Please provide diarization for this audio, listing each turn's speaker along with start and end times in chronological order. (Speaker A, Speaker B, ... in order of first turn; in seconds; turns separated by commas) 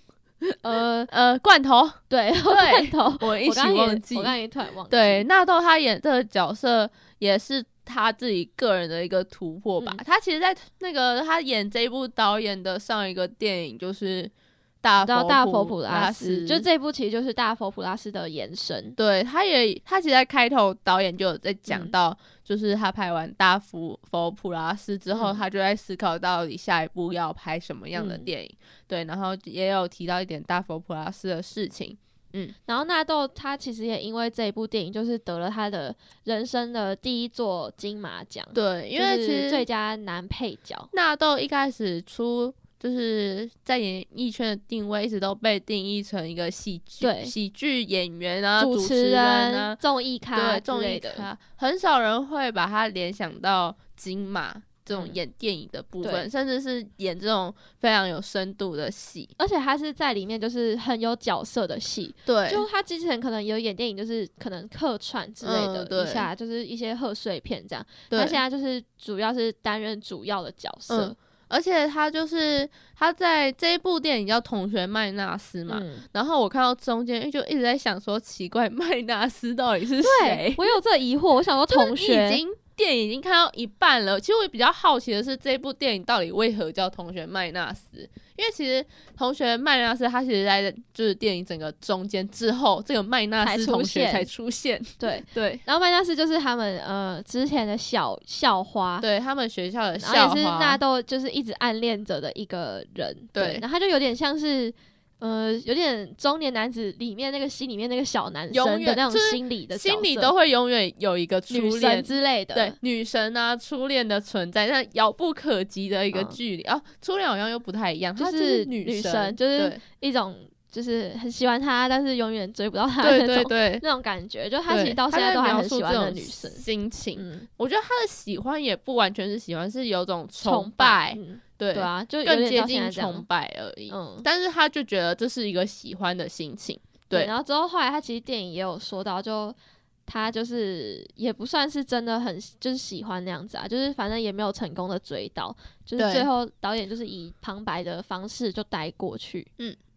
Speaker A: 0.6-1.1, Speaker B: 1.1-4.3, Speaker A: 2.1-5.2, Speaker B: 4.9-16.6, Speaker A: 15.0-18.9, Speaker B: 19.0-32.5, Speaker A: 21.7-21.9, Speaker A: 25.1-25.4, Speaker A: 27.9-28.3, Speaker A: 32.6-40.9, Speaker B: 38.5-39.6, Speaker B: 40.9-49.8, Speaker A: 47.0-47.3, Speaker A: 48.6-51.2, Speaker B: 50.3-59.3, Speaker A: 54.9-55.2, Speaker A: 59.4-71.1, Speaker B: 62.2-62.6, Speaker B: 65.4-66.3, Speaker B: 68.1-68.4, Speaker B: 70.9-80.7, Speaker A: 75.7-76.0, Speaker A: 80.0-82.4, Speaker B: 81.7-95.6, Speaker A: 93.4-94.3, Speaker A: 95.0-99.0, Speaker B: 99.0-100.8, Speaker A: 100.0-110.3, Speaker B: 103.3-103.6, Speaker B: 108.5-119.8, Speaker A: 111.5-112.8, Speaker A: 116.1-116.4, Speaker A: 118.2-126.6, Speaker B: 123.0-123.8, Speaker B: 124.7-137.3, Speaker A: 127.2-127.5, Speaker A: 130.4-133.2, Speaker A: 133.9-134.2, Speaker A: 137.1-139.6, Speaker A: 140.1-149.5, Speaker B: 146.0-146.3